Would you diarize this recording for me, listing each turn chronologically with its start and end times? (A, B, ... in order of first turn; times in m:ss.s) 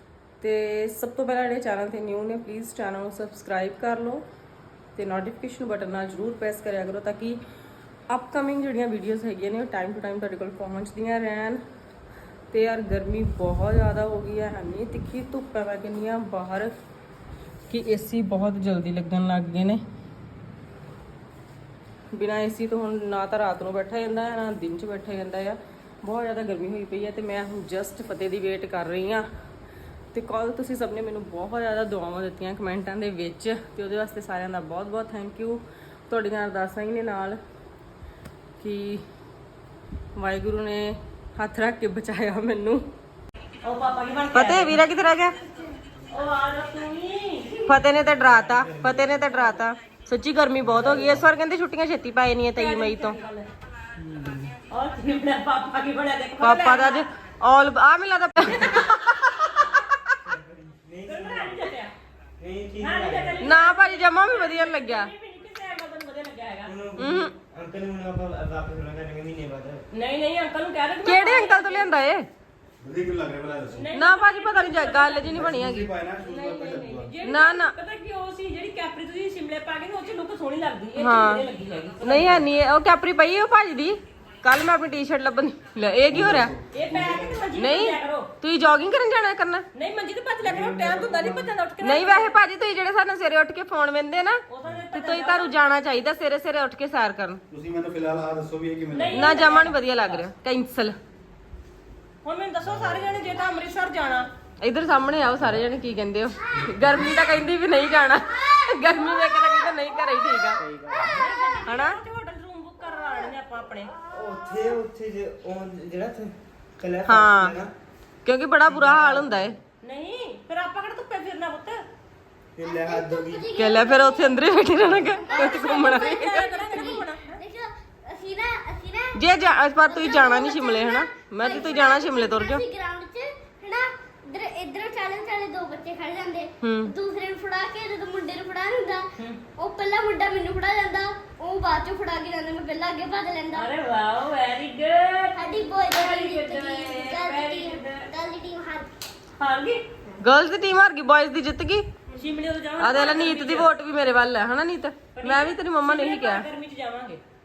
0:00.4-0:04.2 A
0:05.0-0:07.4 A
0:08.1-0:11.6 A
0:12.5-0:16.7 A
0:17.7-0:19.8 A
0:22.1-0:29.2 A
0:30.1-0:37.4 A
0:38.6-0:39.0 A
0:40.2-0:42.8 A
0:43.6-0:44.8 B
0:44.3-0:45.4 A
0:46.1-0:47.8 B
0:47.7-0:53.2 A
0:47.9-0:49.3 C
0:49.2-0:49.6 B
0:50.6-0:51.3 C
0:52.5-0:53.5 B
0:54.0-0:54.6 C
0:54.7-0:57.0 B
0:56.4-1:00.1 A
1:00.2-1:01.6 C
1:01.0-1:01.9 B
1:02.4-1:03.4 C
1:02.8-1:06.7 B
1:03.4-1:05.1 A
1:06.6-1:09.8 C
1:07.0-1:07.3 A
1:09.9-1:11.9 B
1:11.0-1:12.3 A
1:12.8-1:13.9 D
1:13.7-1:15.5 B
1:13.9-1:15.9 A
1:15.4-1:17.1 D
1:16.2-1:22.5 B
1:17.2-1:17.8 A
1:21.0-1:21.4 A
1:22.0-1:26.5 A
1:26.1-1:27.4 C
1:26.7-1:28.3 B
1:27.5-1:29.7 A
1:29.7-1:32.4 B
1:30.4-1:31.5 D
1:30.6-1:31.3 C
1:31.8-1:37.4 A
1:34.5-1:35.6 B
1:37.5-1:39.3 D
1:38.9-1:40.3 B
1:39.1-1:41.0 A
1:42.2-1:44.3 B
1:44.6-1:50.6 A
1:48.5-1:49.4 E
1:50.6-1:51.3 C
1:50.9-1:51.3 E
1:51.0-1:53.9 B
1:51.7-1:52.0 A
1:54.1-1:57.7 C
1:57.1-1:57.6 A
1:58.2-1:59.6 A
1:58.7-1:59.5 C
1:59.8-2:01.8 B
2:02.6-2:03.5 C
2:02.6-2:09.2 E
2:03.6-2:06.9 A
2:05.3-2:07.4 B
2:09.1-2:12.6 A
2:09.8-2:23.7 E
2:16.6-2:17.0 A
2:23.5-2:28.1 B
2:25.4-2:28.9 E
2:29.4-2:29.9 B
2:30.2-2:31.9 A
2:32.1-2:33.7 B
2:32.8-2:36.5 A
2:35.2-2:37.2 B